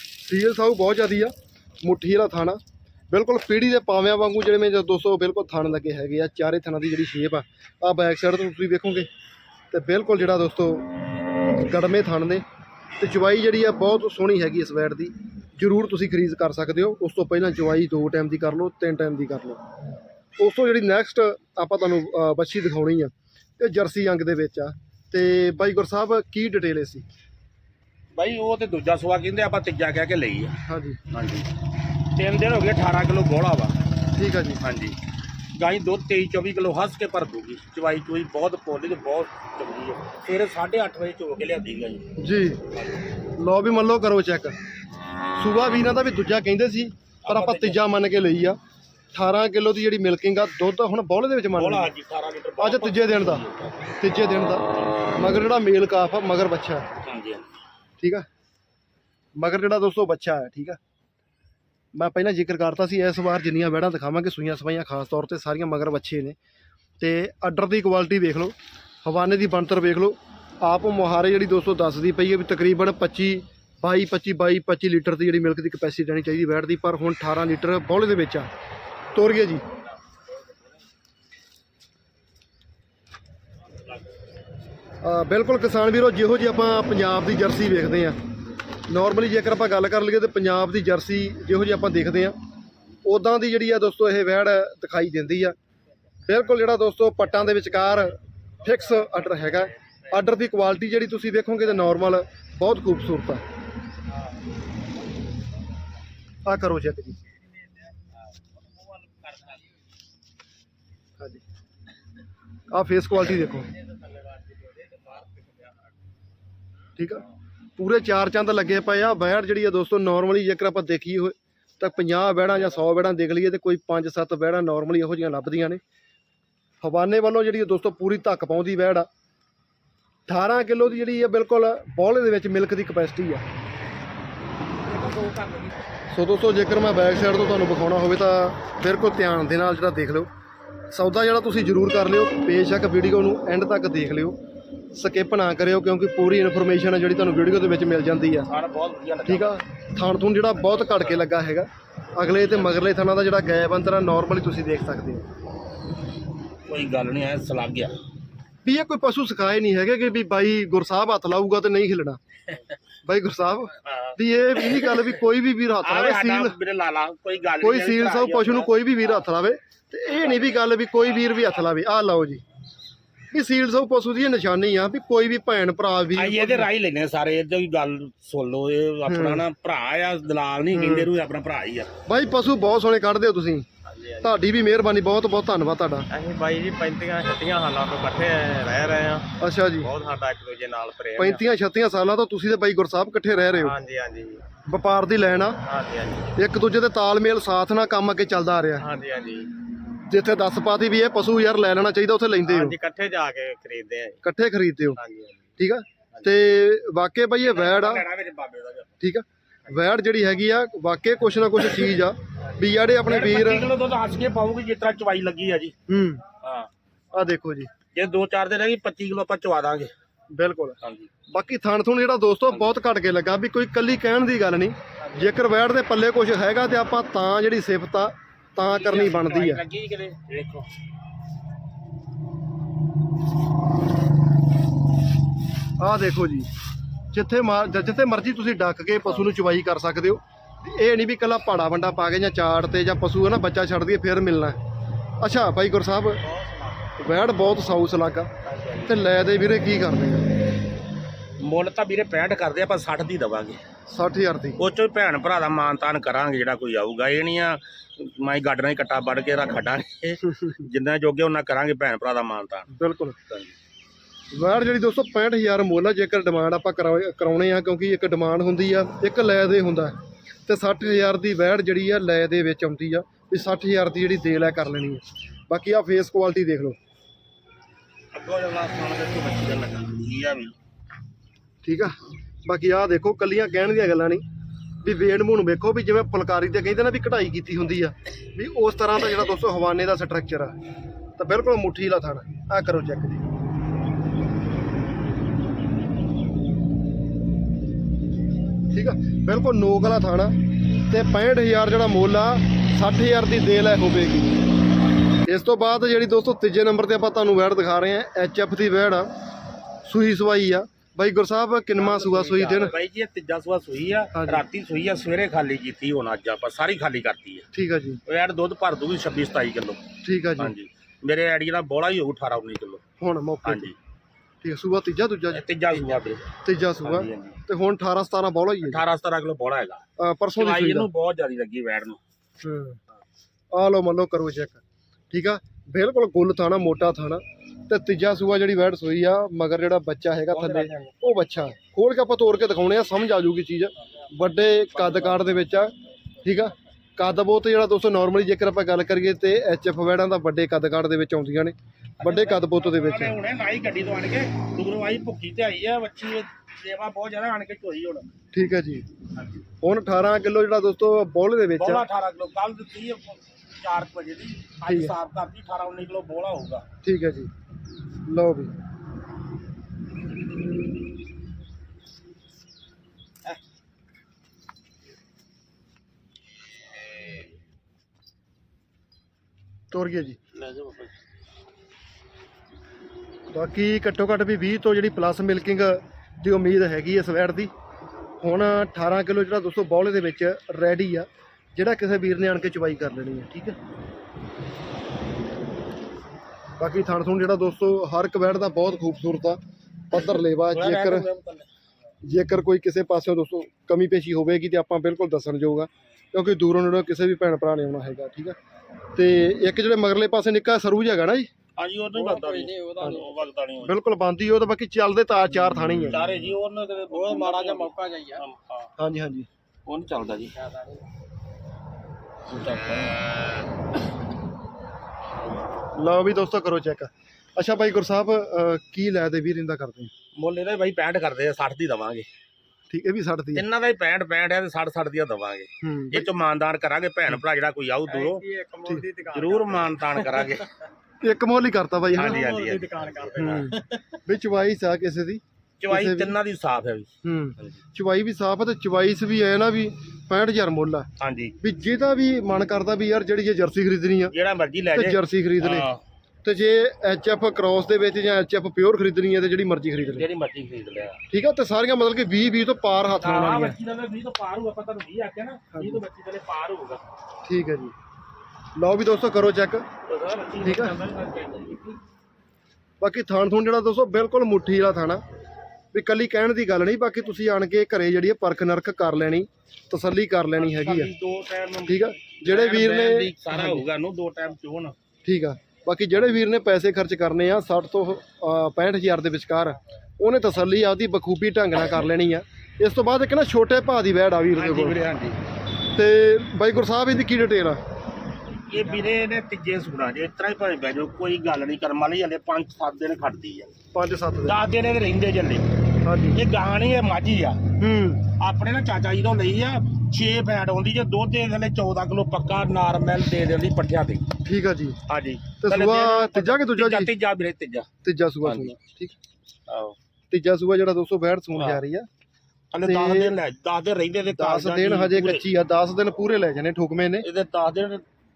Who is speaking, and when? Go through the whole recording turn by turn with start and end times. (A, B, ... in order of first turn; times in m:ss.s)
0:00.2-0:09.1 A
0:09.7-0:10.9 A
0:11.6-0:12.4 A
0:13.0-0:19.6 A
0:20.4-0:27.0 A
0:28.1-0:30.5 B
0:30.6-0:31.0 A
0:31.1-0:31.5 B
0:32.1-0:33.8 B
0:34.1-0:34.6 A
0:34.6-0:35.0 B
0:35.6-0:42.1 B
0:42.2-0:42.6 A
0:43.4-0:44.6 A
0:45.3-0:48.6 A
0:47.2-0:47.8 B
0:49.1-0:51.9 A
0:51.5-0:53.9 B
0:52.6-0:53.4 A
0:54.0-0:56.9 A
0:57.0-0:57.4 B
0:58.0-0:58.2 A
0:59.4-1:00.8 A
1:01.9-1:06.4 A
1:07.0-1:18.5 A
1:19.1-1:19.6 A
1:25.0-1:28.2 A
1:28.9-1:32.4 A
1:33.0-1:35.5 A
1:36.2-1:43.4 A
1:39.0-1:39.6 B
1:46.4-1:47.2 A
1:48.6-1:49.6 B
1:52.7-1:53.7 A
1:54.0-1:55.7 C
1:57.0-1:57.2 A
1:57.8-2:05.8 A
2:06.8-2:09.1 A
2:10.3-2:13.4 A
2:14.8-2:15.8 B
2:16.1-2:20.3 A
2:20.9-2:24.4 A
2:24.9-2:28.5 A
2:28.5-2:29.6 B
2:29.2-2:35.2 A
2:30.8-2:31.1 B
2:36.7-2:38.0 B
2:38.6-2:42.2 A
2:43.0-2:46.6 A
2:43.8-2:45.2 B
2:45.8-2:49.2 B
2:47.6-2:52.4 A
2:53.3-2:56.7 A
2:56.1-3:01.9 B
2:59.1-2:59.4 A
3:00.7-3:01.1 A
3:02.0-3:03.6 A
3:03.8-3:04.4 C
3:04.2-3:06.1 A
3:06.1-3:11.4 C
3:09.4-3:09.9 A
3:11.2-3:13.8 A
3:13.6-3:14.4 C
3:14.7-3:15.6 A
3:15.6-3:16.3 C
3:16.3-3:18.9 A
3:18.8-3:19.5 C
3:20.1-3:22.8 A
3:22.4-3:24.2 C
3:24.2-3:25.0 A
3:24.9-3:25.5 C
3:25.6-3:28.0 A
3:26.1-3:26.4 C
3:27.4-3:28.9 B
3:29.0-3:33.7 A
3:33.0-3:35.7 B
3:35.9-3:36.2 A
3:36.4-3:36.7 B
3:37.1-3:37.7 A
3:37.9-3:39.9 B
3:40.3-3:40.8 A
3:40.8-3:41.1 B
3:41.3-3:49.6 A
3:48.7-3:50.7 B
3:55.8-3:56.5 A
3:57.1-4:04.6 A
4:05.2-4:06.2 A
4:06.2-4:07.0 C
4:07.0-4:08.3 A
4:08.5-4:08.9 B
4:08.8-4:10.3 A
4:11.4-4:13.6 B
4:13.9-4:14.6 A
4:14.6-4:22.7 B
4:20.3-4:20.6 A
4:22.7-4:23.2 A
4:24.3-4:36.8 A
4:38.1-4:40.6 B
4:41.6-4:44.2 A
4:44.8-4:50.6 A
4:51.2-4:53.2 A
4:58.7-5:04.4 A
5:05.2-5:09.1 A
5:09.8-5:12.7 A
5:11.8-5:12.8 C
5:12.6-5:17.5 B
5:14.1-5:14.4 A
5:17.5-5:18.0 A
5:18.0-5:19.8 B
5:20.0-5:20.5 A
5:20.4-5:22.8 B
5:23.0-5:23.7 A
5:23.4-5:23.8 B
5:24.4-5:25.4 A
5:25.3-5:26.3 B
5:26.4-5:28.8 A
5:26.8-5:27.4 B
5:28.6-5:32.0 B
5:30.0-5:30.9 A
5:32.4-5:32.8 A
5:33.5-5:53.2 A
5:40.3-5:41.0 B
5:44.8-5:45.2 B
5:52.0-5:58.1 B
5:58.3-5:58.8 A
5:59.6-6:01.8 A
6:01.6-6:06.6 B
6:04.6-6:04.9 A
6:06.8-6:07.3 A
6:08.1-6:08.5 A
6:19.7-6:20.2 A
6:20.3-6:20.9 B
6:23.3-6:27.5 A
6:28.2-6:33.6 A
6:36.6-6:41.1 A
6:40.5-6:41.5 B
6:42.0-6:48.4 A
6:48.9-6:51.3 A
6:51.6-6:53.7 B
6:51.9-6:53.2 C
6:52.8-6:53.0 A
6:53.6-6:56.0 A
6:55.8-6:58.7 B
6:56.9-6:58.2 C
6:58.8-6:59.3 A
6:59.6-7:00.4 B
7:00.4-7:00.8 C
7:02.3-7:03.0 B
7:05.7-7:09.9 A
7:10.2-7:12.0 B
7:12.7-7:13.4 A
7:13.3-7:18.2 B
7:15.6-7:16.1 A
7:17.9-7:20.5 C
7:19.1-7:20.5 B
7:21.0-7:22.2 A
7:21.9-7:23.5 B
7:21.9-7:24.0 C
7:23.2-7:26.1 A
7:25.6-7:26.9 B
7:27.0-7:30.9 A
7:31.0-7:31.4 B
7:31.4-7:34.1 A
7:34.1-7:35.8 B
7:34.7-7:35.7 A
7:36.2-7:40.0 A
7:40.0-7:41.0 B
7:41.1-7:43.6 A
7:43.0-7:46.8 B
7:45.5-7:45.8 A
7:47.2-7:47.7 A
7:48.6-7:49.7 A
7:49.9-7:51.8 B
7:50.4-7:50.7 A
7:52.8-7:55.0 A
7:55.7-8:00.9 A
8:00.4-8:04.8 B
8:01.7-8:03.6 A
8:05.0-8:14.8 A
8:14.3-8:15.2 B
8:15.7-8:17.6 A
8:18.5-8:23.5 B
8:23.7-8:24.4 A
8:24.2-8:25.6 B
8:25.8-8:26.2 A
8:26.1-8:27.4 B
8:27.6-8:28.0 A
8:28.2-8:34.1 B
8:34.2-8:34.8 A
8:34.9-8:37.7 B
8:35.4-8:36.9 A
8:37.8-8:39.0 A
8:38.2-8:38.6 B
8:39.5-8:39.8 B
8:40.1-8:41.9 A
8:41.3-8:41.6 B
8:42.5-8:45.3 B
8:42.6-8:43.2 A
8:44.1-8:47.1 A
8:47.0-8:47.8 B